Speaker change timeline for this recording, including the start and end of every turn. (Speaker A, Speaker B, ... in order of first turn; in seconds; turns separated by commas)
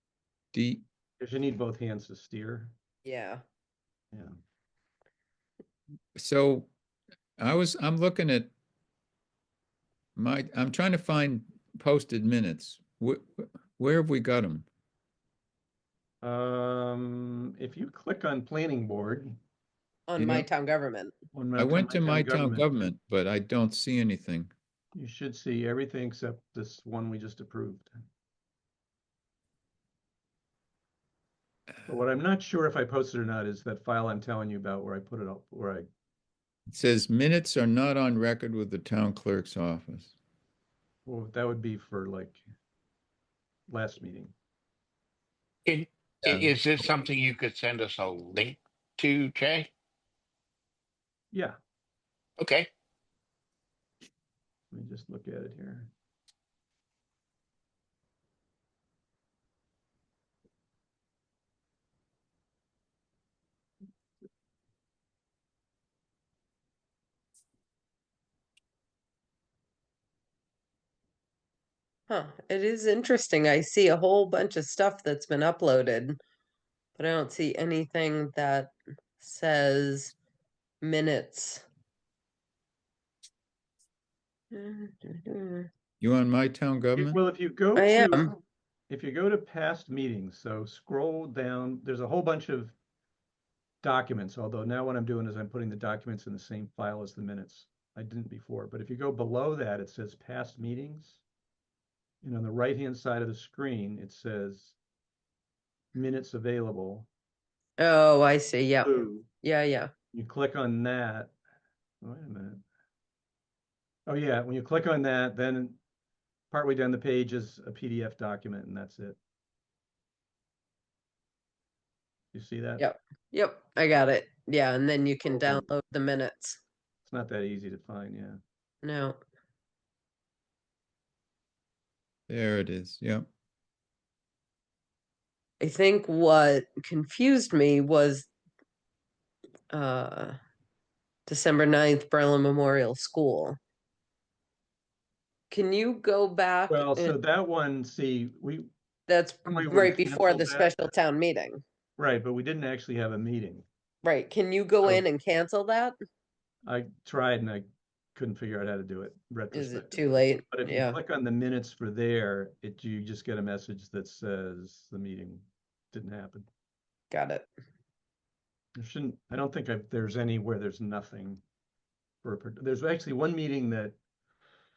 Speaker A: 0.5-0.8, Speaker B: 1.2-2.8, Speaker C: 3.0-3.4, Speaker A: 6.2-6.7, Speaker A: 7.4-8.5, Speaker A: 10.2-14.7, Speaker B: 16.2-19.4, Speaker C: 20.1-21.1, Speaker A: 20.2-20.5, Speaker B: 21.3-22.9, Speaker A: 21.6-24.5, Speaker B: 24.9-27.9, Speaker B: 31.9-35.9, Speaker A: 36.7-40.1, Speaker B: 41.1-42.4, Speaker B: 43.7-44.3, Speaker D: 45.7-49.7, Speaker A: 46.2-46.5, Speaker B: 51.3-51.6, Speaker D: 52.4-52.7, Speaker B: 54.7-55.9, Speaker C: 72.1-76.2, Speaker C: 77.0-80.1, Speaker C: 80.8-81.7, Speaker C: 84.5-85.7, Speaker A: 86.0-87.2, Speaker B: 87.0-88.3, Speaker C: 87.8-88.3, Speaker B: 88.9-92.8, Speaker B: 93.8-101.2, Speaker B: 102.2-104.8, Speaker B: 105.9-107.1, Speaker C: 107.8-109.9, Speaker B: 108.8-109.3, Speaker B: 110.1-111.3, Speaker B: 112.0-112.6, Speaker B: 114.1-115.8, Speaker B: 116.5-119.2, Speaker B: 122.3-122.9, Speaker C: 122.8-126.6, Speaker B: 125.4-125.6, Speaker B: 127.0-128.4, Speaker C: 128.8-129.2, Speaker A: 132.3-133.3, Speaker C: 135.6-138.3, Speaker C: 139.7-140.4, Speaker C: 141.3-143.6, Speaker C: 145.5-147.2, Speaker B: 146.7-148.7, Speaker C: 149.1-151.6, Speaker B: 149.5-150.7, Speaker B: 152.0-153.7, Speaker C: 154.0-156.0, Speaker B: 156.7-166.5, Speaker C: 159.5-161.0, Speaker C: 167.1-167.5, Speaker B: 168.8-171.4, Speaker B: 172.2-174.0